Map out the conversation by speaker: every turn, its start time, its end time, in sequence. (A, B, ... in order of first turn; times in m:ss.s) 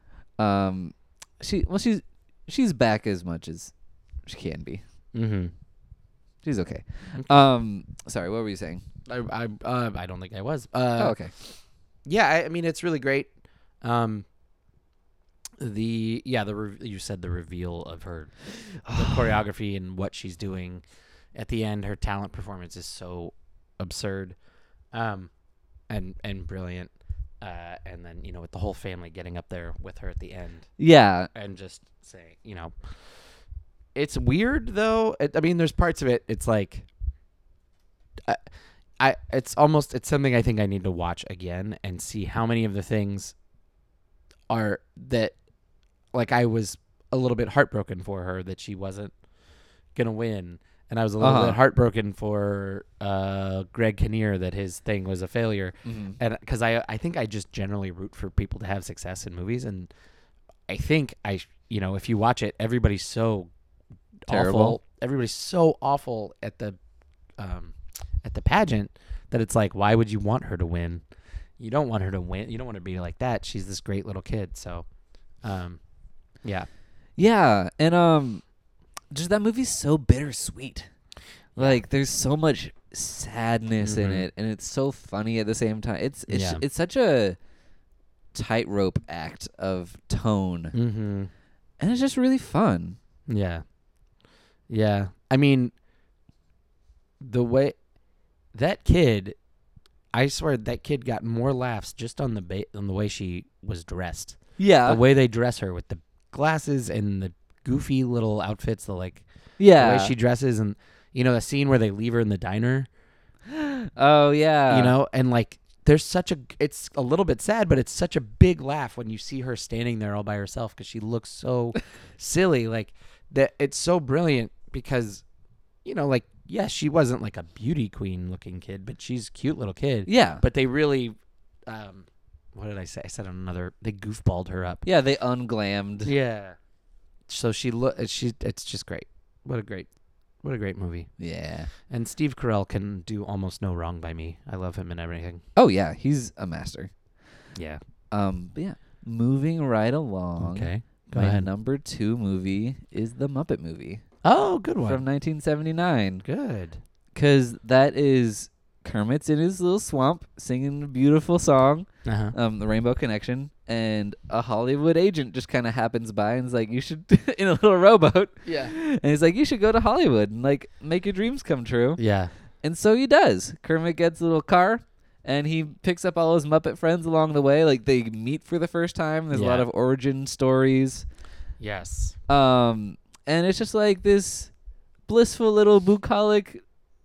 0:00.4-0:03.7 A
0:04.2-0:04.8 A
0:05.1-0:05.5 B
0:06.4-0:08.8 A
0:09.1-0:13.3 B
0:11.0-0:11.3 A
0:13.8-0:14.2 B
0:15.6-0:20.8 B
0:18.8-0:19.3 A
0:21.3-0:24.4 B
0:24.9-0:25.3 B
0:25.9-0:30.7 B
0:30.8-0:31.3 A
0:31.3-0:32.8 B
0:33.9-0:36.8 B
0:39.0-0:43.3 B
0:44.5-0:45.4 B
0:46.1-0:49.1 B
0:49.9-0:59.9 B
0:51.2-0:51.6 A
0:55.8-0:56.2 A
1:00.7-1:03.5 B
1:04.2-1:06.8 B
1:04.3-1:04.8 A
1:07.4-1:11.0 B
1:11.6-1:14.8 B
1:15.4-1:15.8 B
1:17.2-1:18.4 A
1:19.1-1:20.9 A
1:21.6-1:21.8 B
1:21.6-1:27.4 A
1:23.8-1:24.3 B
1:26.3-1:26.6 B
1:28.3-1:30.7 A
1:30.7-1:31.3 B
1:31.8-1:33.0 A
1:33.3-1:33.6 B
1:34.7-1:35.7 B
1:37.2-1:37.8 B
1:38.5-1:39.4 B
1:40.1-1:52.9 B
1:44.6-1:45.0 A
1:49.6-1:50.1 A
1:53.5-1:54.9 A
1:54.7-2:05.2 B
2:05.8-2:11.1 B
2:10.1-2:10.4 A
2:11.7-2:14.8 B
2:14.8-2:16.1 A
2:16.0-2:16.6 B
2:17.3-2:19.9 B
2:20.4-2:21.1 B
2:21.2-2:21.7 A
2:21.9-2:25.4 B
2:25.6-2:26.9 A
2:27.5-2:27.8 B
2:28.1-2:34.0 A
2:30.4-2:31.5 B
2:34.2-2:35.0 B
2:34.8-2:36.2 A
2:36.2-2:36.8 B
2:37.1-2:52.0 A
2:42.0-2:42.3 B
2:48.4-2:48.7 B
2:52.0-2:52.3 B
2:52.6-3:01.0 A
2:59.3-2:59.6 B
3:01.6-3:02.2 B
3:02.3-3:04.5 A
3:05.1-3:06.6 A